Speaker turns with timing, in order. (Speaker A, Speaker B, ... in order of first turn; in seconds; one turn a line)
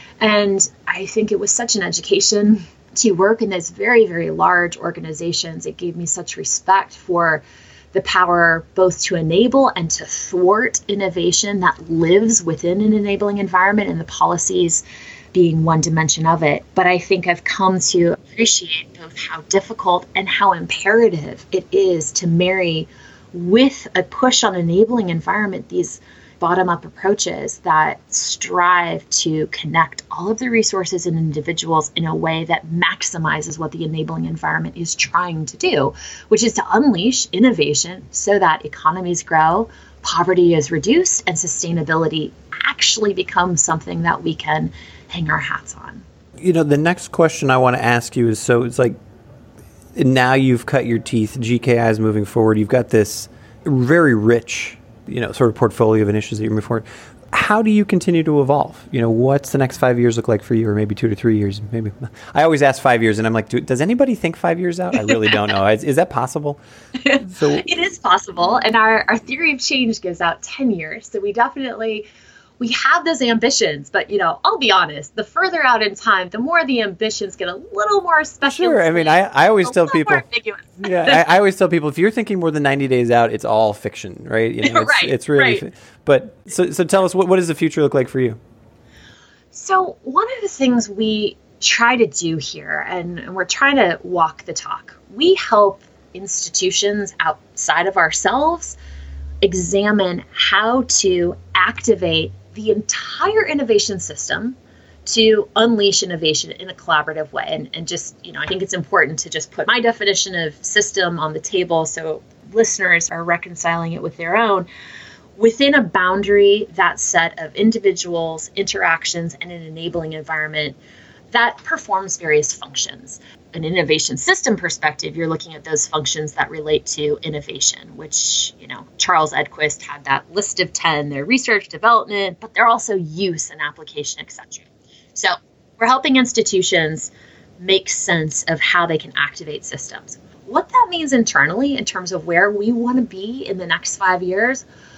Speaker A: 0.2-46.0
Speaker B: 46.4-49.0
Speaker B: 49.9-66.6
Speaker A: 67.0-72.1
Speaker B: 67.2-67.6
Speaker A: 72.6-81.2
Speaker B: 78.4-80.2
Speaker B: 80.8-88.4
Speaker A: 84.6-85.7
Speaker A: 89.5-98.8
Speaker A: 99.4-114.7
Speaker A: 115.4-120.8
Speaker A: 121.3-134.6
Speaker A: 135.1-144.6